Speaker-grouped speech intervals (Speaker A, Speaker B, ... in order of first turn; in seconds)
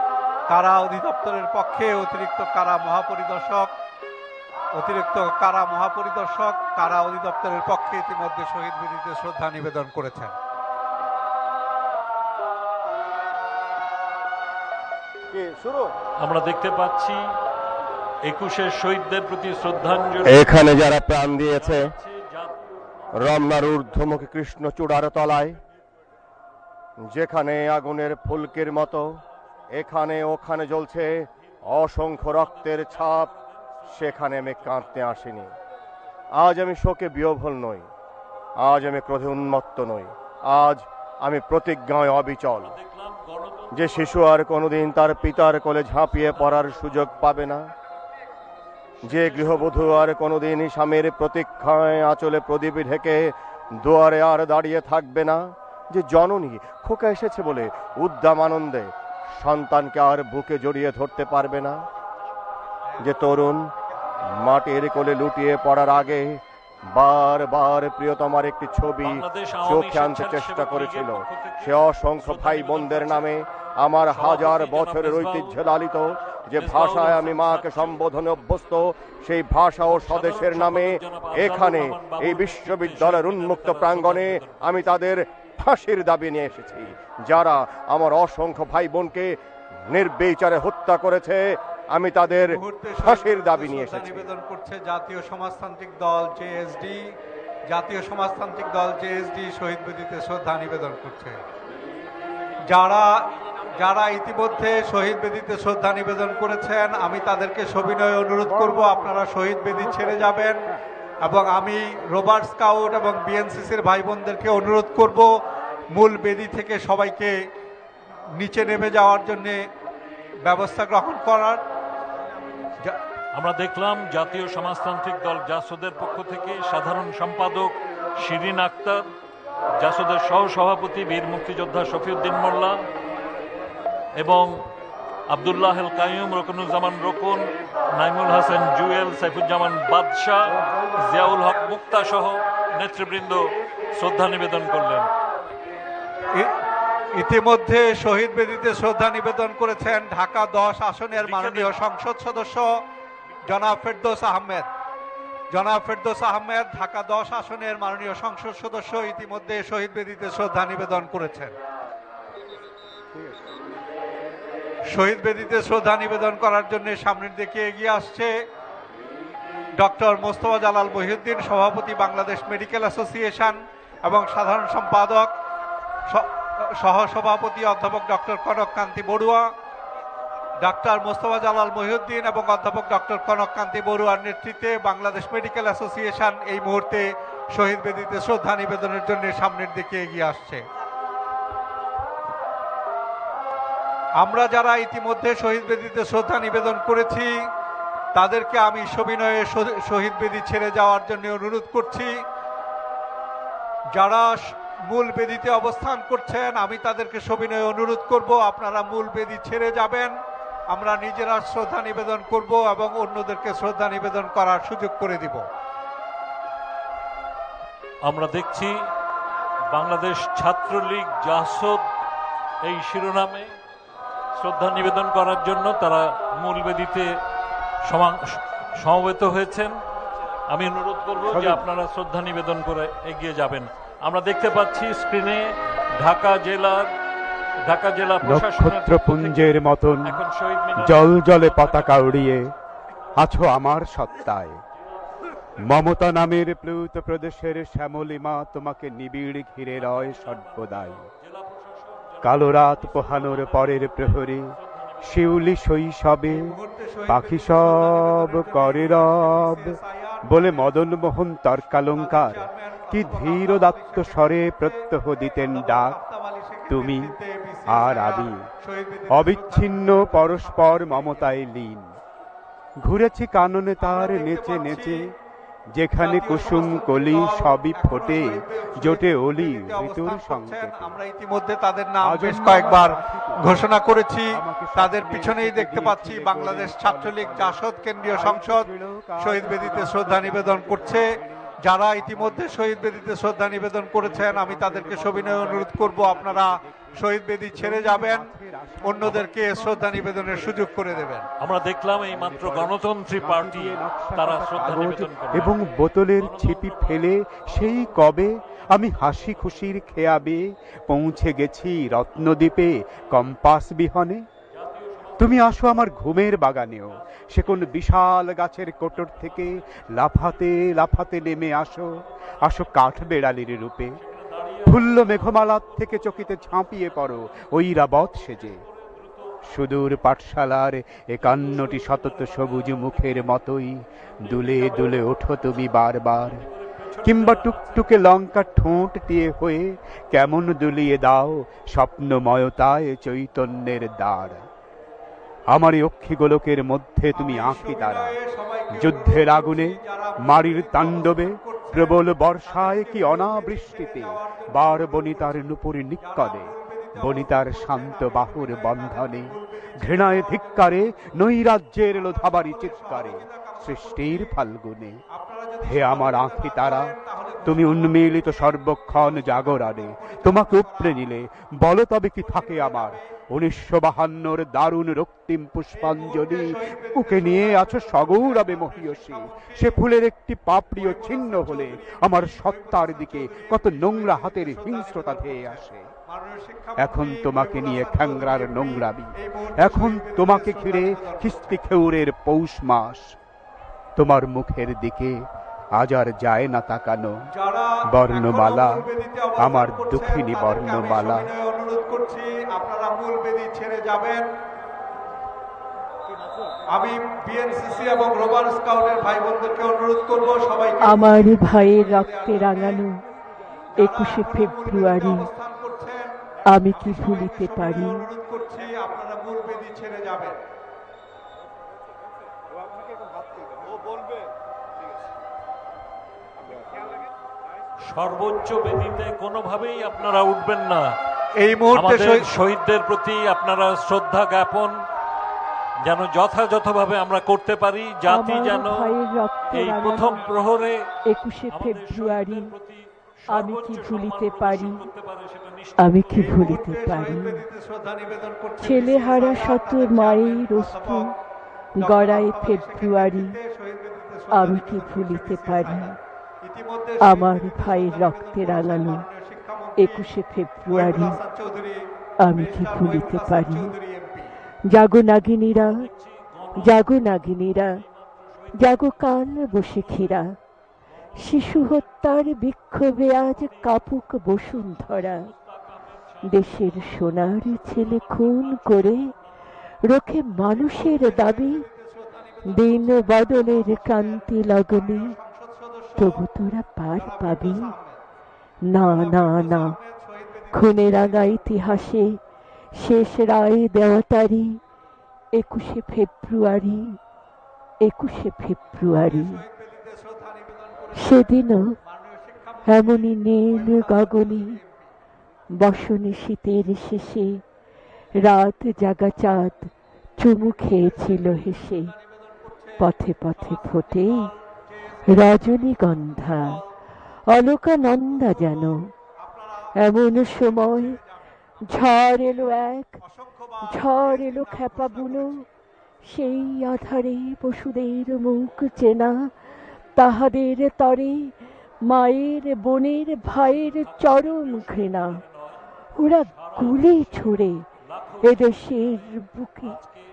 Speaker A: 0.5-3.7, 4.7-10.3, 92.4-97.2, 97.7-101.4, 102.6-110.6, 111.2-115.3, 115.9-117.4, 118.3-119.6, 120.5-121.6, 146.3-146.6, 147.1-152.8, 153.4-154.7, 155.5-161.6, 164.9-168.3, 169.8-175.3, 176.1-179.5, 180.6-190.6, 194.2-197.3, 198.2-202.2, 203.9-210.1, 210.7-215.4, 256.3-260.7, 261.7-271.3, 273.8-275.1, 276.0-288.7, 289.2-291.1, 291.6-298.3, 298.8-301.3, 347.1-361.1, 361.9-364.3, 365.1-371.0, 372.2-373.0, 375.7-379.8, 380.8-391.6, 397.3-404.2, 406.7-412.8, 413.7-420.4, 431.4-432.2, 446.1-451.1, 451.8-460.1, 460.7-464.3, 480.5-486.3, 486.9-488.0, 488.8-491.4, 498.9-504.9, 510.8-515.4, 516.1-516.7, 518.2-521.1, 521.6-525.5
Speaker B: 15.3-15.9, 20.2-21.9, 23.1-25.6, 27.1-29.2, 29.7-33.3, 33.9-35.5, 36.3-37.9, 38.6-42.7, 43.7-47.7, 49.0-61.8, 63.0-63.7, 64.2-94.3
Speaker C: 16.2-17.3, 18.2-22.6, 42.6-44.1, 46.1-47.1, 49.0-49.9, 69.0-73.4, 73.9-75.6, 76.5-78.1, 79.8-85.0, 123.3-129.1, 129.8-132.8, 134.2-134.6, 135.3-143.4, 143.9-145.1, 151.1-151.8, 218.0-218.8, 219.7-221.8, 222.6-223.6, 224.4-227.1, 227.8-229.8, 230.5-236.9, 237.6-242.5, 249.7-255.4, 301.4-305.6, 306.2-309.4, 314.5-315.9, 317.1-317.8, 318.9-320.8, 322.5-329.3, 331.2-333.3, 334.2-337.9, 427.9-430.9, 431.7-434.8, 435.8-438.9, 439.5-440.9, 441.5-446.1, 465.8-466.9, 468.3-468.9, 475.0-476.6, 477.2-479.2, 533.3-535.5, 536.1-539.1, 539.6-540.0
Speaker D: 108.5-109.0, 231.3-231.6, 238.2-240.2, 240.8-242.5, 243.2-244.6, 245.6-251.1, 252.2-256.5, 257.1-266.0, 266.7-267.1, 267.7-268.4, 269.1-272.0, 272.8-275.1, 275.7-281.0, 282.0-283.7, 284.3-292.9, 294.0-297.0, 297.5-301.1, 302.1-314.2, 315.2-324.0, 324.6-328.6, 329.4-336.4, 337.0-344.4, 345.5-348.2, 348.7-365.0, 365.6-366.9, 367.4-385.9, 386.8-393.1, 393.9-395.2, 395.7-397.2, 397.9-401.3
Speaker E: 410.8-413.0, 413.8-415.3, 416.5-418.1, 438.1-440.3, 441.1-442.5, 443.3-444.9, 445.8-447.4, 448.6-451.1, 451.8-453.4, 454.3-456.0, 457.0-459.0, 459.8-461.2, 462.2-463.7, 464.7-465.9, 466.6-467.8, 468.6-470.4, 471.1-475.3, 476.2-479.1, 479.9-481.6, 482.4-485.1, 486.0-487.7, 488.6-489.8, 490.5-492.2, 492.7-494.6, 495.3-497.0, 497.8-499.4, 500.9-501.7, 502.7-504.6, 505.6-507.4, 508.2-511.9, 512.8-514.3, 515.1-516.6, 517.3-518.9, 519.8-521.0, 521.7-523.0, 523.6-525.4, 526.0-529.3, 530.0-531.3, 531.8-535.2, 536.0-537.6, 538.2-539.8